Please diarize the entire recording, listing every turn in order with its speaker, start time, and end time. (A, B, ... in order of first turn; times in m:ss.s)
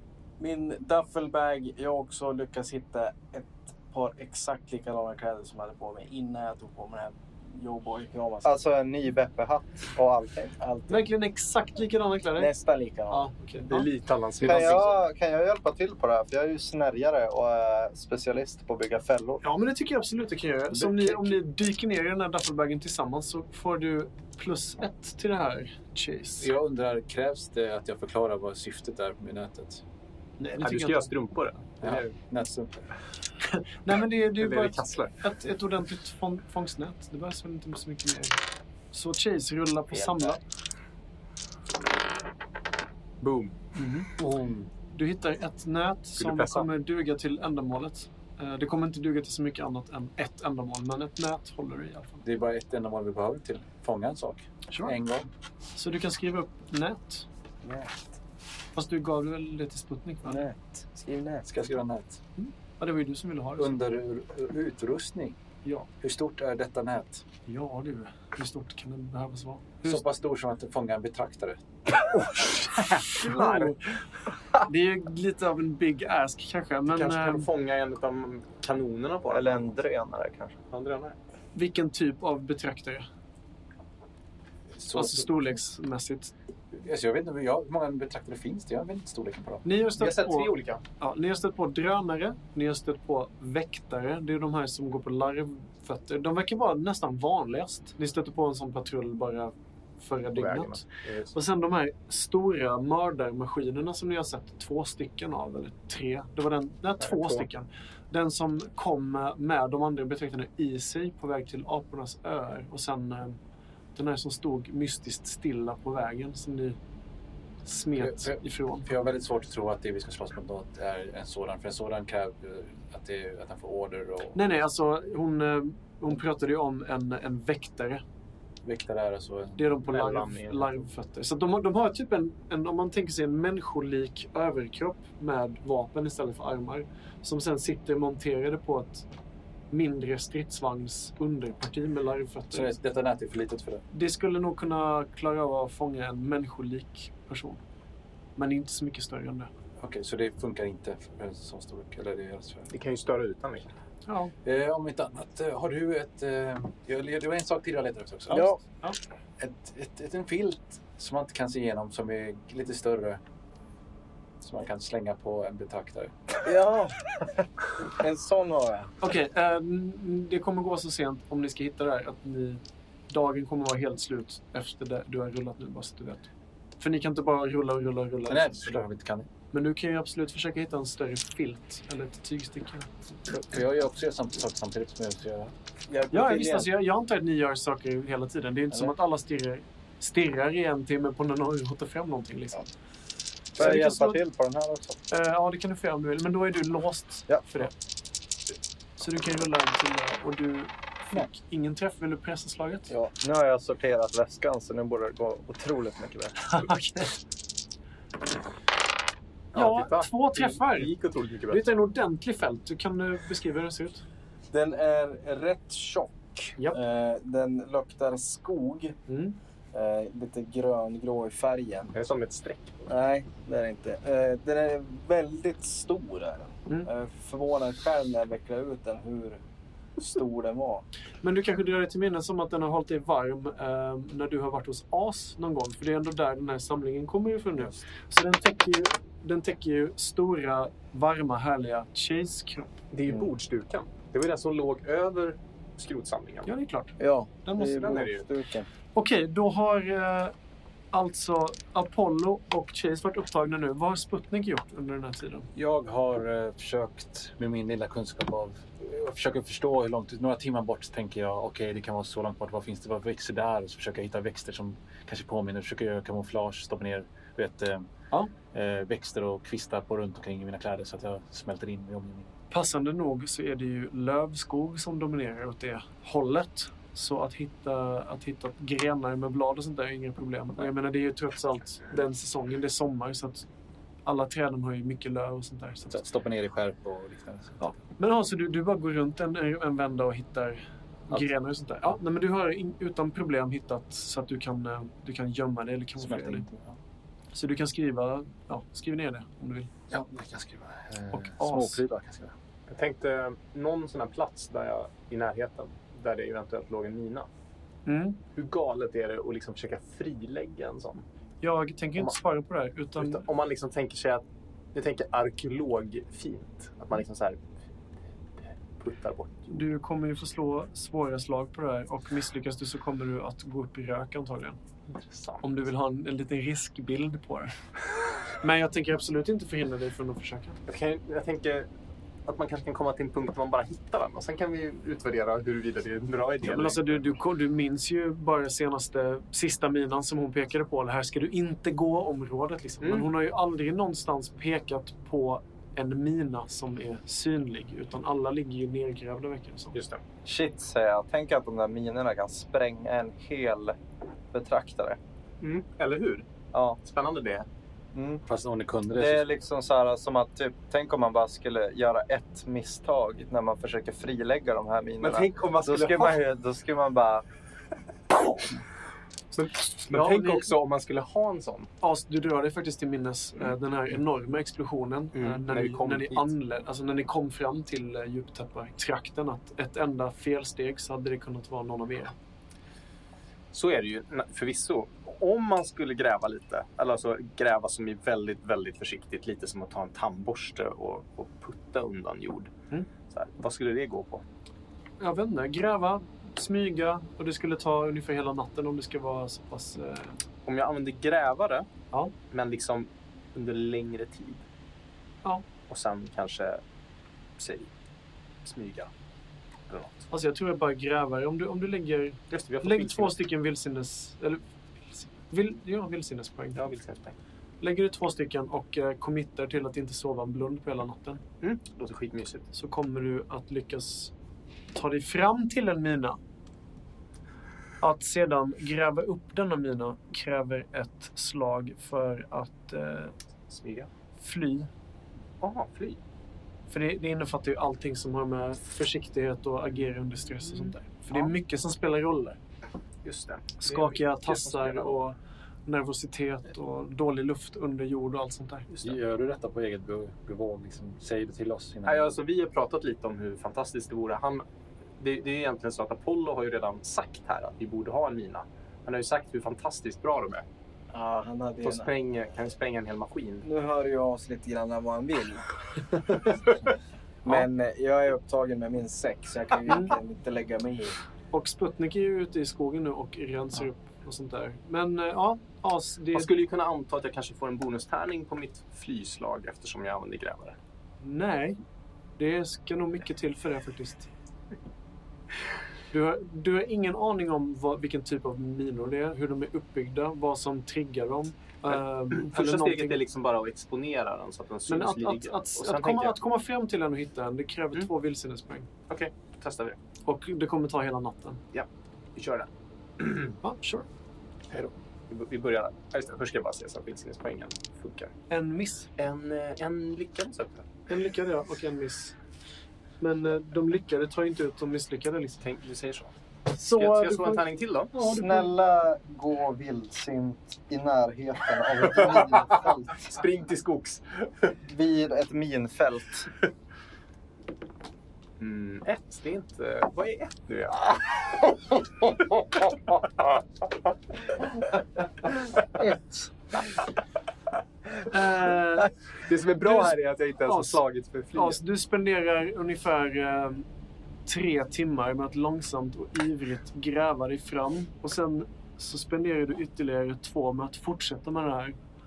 0:00.4-0:08.5 A
0:08.4-0:10.6 B
0:10.6-0:11.1 A
0:10.9-0:12.5 C
0:12.4-0:13.3 A
0:13.1-0:13.9 C
0:13.6-0:15.0 D
0:14.4-0:19.4 B
0:19.4-0:26.5 C
0:26.4-0:29.8 E
0:30.4-0:31.1 C
0:30.6-0:32.1 D
0:31.8-0:32.8 E
0:33.4-0:38.4 C
0:34.4-0:35.2 D
0:38.9-0:40.4 C
0:43.2-0:43.6 D
0:43.7-0:44.1 C
0:44.2-0:44.7 E
0:44.9-0:52.2 C
0:46.2-0:46.7 D
0:52.2-0:55.3 E
0:54.7-0:55.0 C
0:55.7-0:57.2 C
0:57.6-0:58.1 A
0:58.7-1:00.5 C
1:00.2-1:01.7 A
1:01.5-1:02.2 E
1:02.4-1:03.7 C
1:03.6-1:05.4 E
1:06.0-1:07.2 E
1:07.5-1:10.0 C
1:09.8-1:11.6 E
1:12.8-1:13.7 D
1:13.0-1:14.0 C
1:14.6-1:17.5 C
1:16.9-1:19.7 D
1:19.3-1:20.5 B
1:20.7-1:21.2 D
1:21.5-1:23.1 C
1:24.8-1:25.4 E
1:24.9-1:26.3 C
1:26.8-1:29.6 E
1:29.6-1:53.4 C
1:30.0-1:30.8 D
1:40.3-1:41.3 D
1:47.0-1:47.4 D
1:53.9-1:56.8 C
1:57.6-1:58.9 C
1:58.0-2:04.4 E
2:04.3-2:08.0 C
2:08.6-2:09.7 E
2:09.6-2:19.0 C
2:09.9-2:10.8 D
2:19.7-2:22.7 C
2:22.5-2:23.8 E
2:23.9-2:27.6 C
2:28.4-2:29.5 C
2:29.8-2:32.7 E
2:32.7-2:33.7 D
2:34.1-2:34.3 C
2:34.4-2:38.6 E
2:38.3-2:38.6 A
2:39.4-2:43.2 E
2:44.4-2:46.1 E
2:46.4-2:47.1 A
2:47.9-2:48.9 A
2:49.0-2:56.3 C
2:56.8-2:58.8 C
2:58.3-2:59.3 E
2:59.5-3:03.2 C
3:03.3-3:05.5 E
3:05.9-3:06.7 A
3:06.1-3:12.7 C
3:13.5-3:14.2 C
3:13.6-3:15.0 B
3:15.1-3:17.7 C
3:19.0-3:22.9 C
3:23.2-3:26.6 B
3:26.4-3:27.2 C
3:29.5-3:30.9 C
3:29.5-3:31.6 D
3:31.5-3:34.0 C
3:34.5-3:39.0 A
3:39.1-3:39.4 C
3:39.7-3:41.9 A
3:41.9-3:42.8 D
3:42.9-3:49.4 A
3:50.0-3:50.8 A
3:51.2-4:02.7 C
4:02.9-4:06.5 D
4:06.4-4:08.0 C
4:07.0-4:08.7 A
4:07.8-4:08.2 D
4:08.9-4:10.3 C
4:10.9-4:15.5 C
4:15.5-4:27.9 E
4:28.5-4:32.3 E
4:32.5-4:43.4 C
4:44.0-4:46.0 C
4:45.9-4:47.6 E
4:47.6-4:56.4 C
4:56.0-4:56.8 E
4:57.3-4:59.7 C
4:59.9-5:02.3 E
5:01.1-5:01.8 C
5:02.7-5:07.3 D
5:07.8-5:08.2 C
5:08.3-5:11.0 D
5:11.4-5:13.2 C
5:13.0-5:17.4 D
5:18.8-5:19.6 D
5:19.5-5:24.6 C
5:24.9-5:25.4 D
5:25.4-5:27.5 C
5:28.4-5:30.6 C
5:30.7-5:31.7 D
5:32.2-5:37.1 D
5:36.4-5:49.8 C
5:42.8-5:43.1 D
5:49.7-5:50.0 D
5:50.2-5:53.8 B
5:54.3-5:55.0 B
5:55.4-5:56.3 D
5:56.5-5:56.8 B
5:56.8-5:57.5 D
5:57.9-5:58.2 B
5:58.3-5:59.3 E
5:58.9-6:07.2 B
6:05.0-6:06.2 D
6:09.3-6:11.7 D
6:09.9-6:10.5 C
6:11.8-6:22.1 C
6:15.1-6:16.3 D
6:23.5-6:32.5 D
6:33.1-6:34.2 D
6:35.0-6:40.2 C
6:40.4-6:41.7 D
6:42.3-6:44.4 D
6:45.7-6:46.6 D
6:47.4-6:47.7 D
6:48.4-6:48.9 D
6:49.7-6:50.1 D
6:50.1-6:56.6 C
6:52.3-6:53.2 D
6:56.5-6:57.2 D
6:57.6-7:01.2 C
7:01.4-7:02.5 D
7:02.5-7:04.1 C
7:04.7-7:06.2 C
7:07.8-7:13.1 C
7:13.5-7:13.9 D
7:14.2-7:14.7 C
7:15.4-7:16.0 D
7:16.7-7:22.4 C
7:23.0-7:25.0 D
7:23.6-7:28.9 C
7:28.8-7:32.2 E
7:31.8-7:34.4 D
7:35.0-7:40.4 D
7:40.9-7:41.9 A
7:41.6-7:43.4 D
7:43.4-7:46.2 A
7:47.2-7:51.0 A
7:51.3-7:56.3 C
7:56.1-8:00.6 D
8:01.0-8:01.6 C
8:02.2-8:04.1 C
8:05.9-8:13.0 C
8:11.7-8:16.1 D
8:14.7-8:18.7 C
8:18.9-8:19.8 D
8:20.0-8:21.4 C
8:21.5-8:23.4 D
8:23.4-8:23.9 C
8:24.5-8:28.1 D
8:28.3-8:28.9 C
8:29.0-8:30.7 D
8:30.9-8:32.2 C
8:33.0-8:35.4 C
8:35.4-8:36.1 D
8:36.5-8:38.5 C
8:36.7-8:38.1 D
8:38.1-8:43.1 B
8:41.9-8:44.5 D
8:44.6-8:46.3 B
8:48.4-8:53.7 D
8:55.8-8:56.3 B
8:58.1-8:58.9 C
8:59.2-9:01.6 D
8:59.6-9:03.6 C
9:04.2-9:11.8 C